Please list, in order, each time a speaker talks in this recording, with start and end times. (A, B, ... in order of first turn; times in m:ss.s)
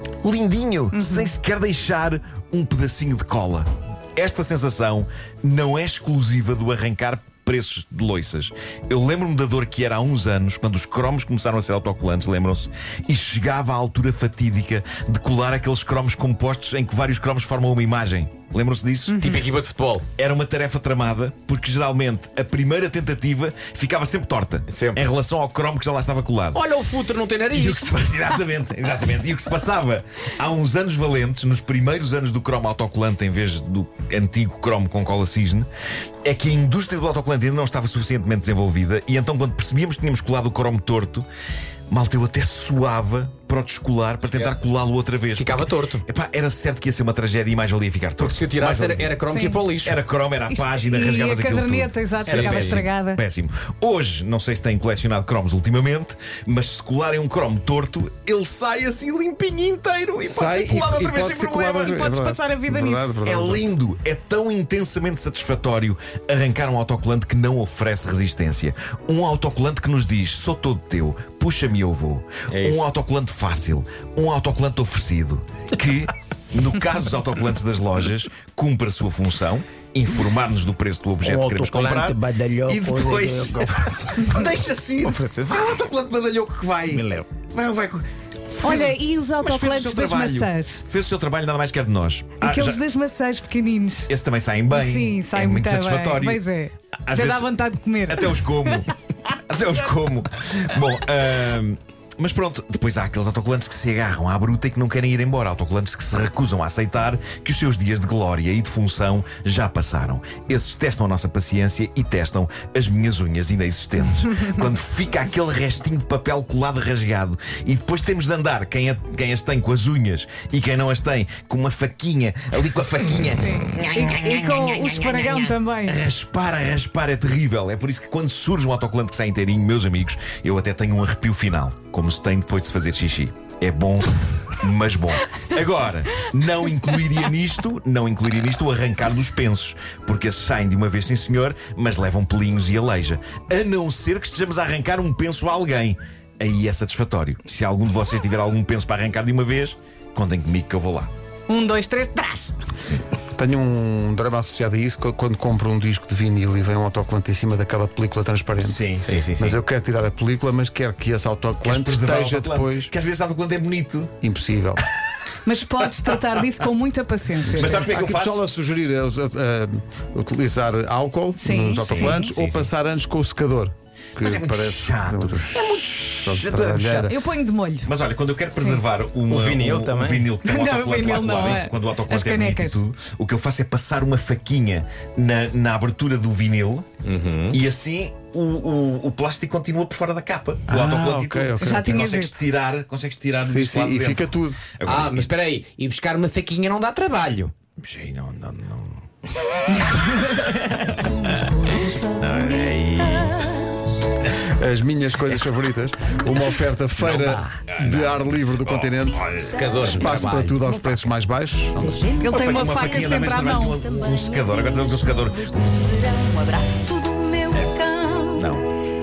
0:00.2-0:19.3 A
0:00.9-0:01.3 B
0:19.1-0:19.4 B
0:19.2-0:20.1 C
0:20.2-0:26.6 A
0:24.7-0:25.0 C
0:26.5-0:28.3 C
0:27.5-0:35.7 A
0:36.2-0:41.3 A
0:41.9-0:49.0 A
0:44.3-0:44.6 C
0:45.3-0:46.0 C
0:48.2-0:50.0 C
0:49.2-0:49.7 B
0:49.8-1:02.0 A
0:50.5-0:53.2 B
0:52.2-0:52.9 C
1:00.2-1:03.6 D
1:01.7-1:03.2 B
1:03.2-1:28.0 A
1:12.5-1:12.9 C
1:21.2-1:23.0 C
1:25.0-1:25.7 C
1:26.9-1:27.3 C
1:28.6-1:32.8 A
1:28.6-1:30.8 B
1:32.4-1:34.1 B
1:34.1-1:36.4 A
1:34.7-1:38.8 B
1:37.0-1:37.6 A
1:38.1-2:05.2 A
2:03.4-2:06.0 B
2:05.8-2:31.1 A
2:31.5-2:32.6 B
2:32.8-2:33.0 A
2:33.4-2:38.8 D
2:38.6-2:39.6 A
2:39.4-2:42.9 D
2:41.6-2:44.2 A
2:44.2-2:44.8 D
2:45.5-2:47.9 B
2:47.4-2:57.2 D
2:47.5-2:48.4 A
2:51.4-2:52.0 B
2:51.8-2:52.7 A
2:54.2-2:57.1 A
2:57.1-2:57.9 B
2:57.8-3:06.9 A
2:59.3-3:00.4 C
3:00.4-3:02.8 B
3:01.2-3:01.6 C
3:07.0-3:07.6 C
3:07.5-3:15.4 A
3:10.7-3:12.0 D
3:11.6-3:12.4 B
3:13.4-3:14.6 D
3:14.8-3:17.5 C
3:17.8-3:19.0 A
3:19.7-3:20.7 A
3:20.9-3:23.9 E
3:22.2-3:23.6 A
3:24.5-3:32.0 D
3:27.0-3:27.6 C
3:27.8-3:28.3 A
3:28.8-3:29.5 A
3:29.1-3:30.2 E
3:29.5-3:30.9 C
3:31.8-3:38.5 E
3:32.2-3:33.8 B
3:32.3-3:35.7 A
3:38.4-3:38.7 A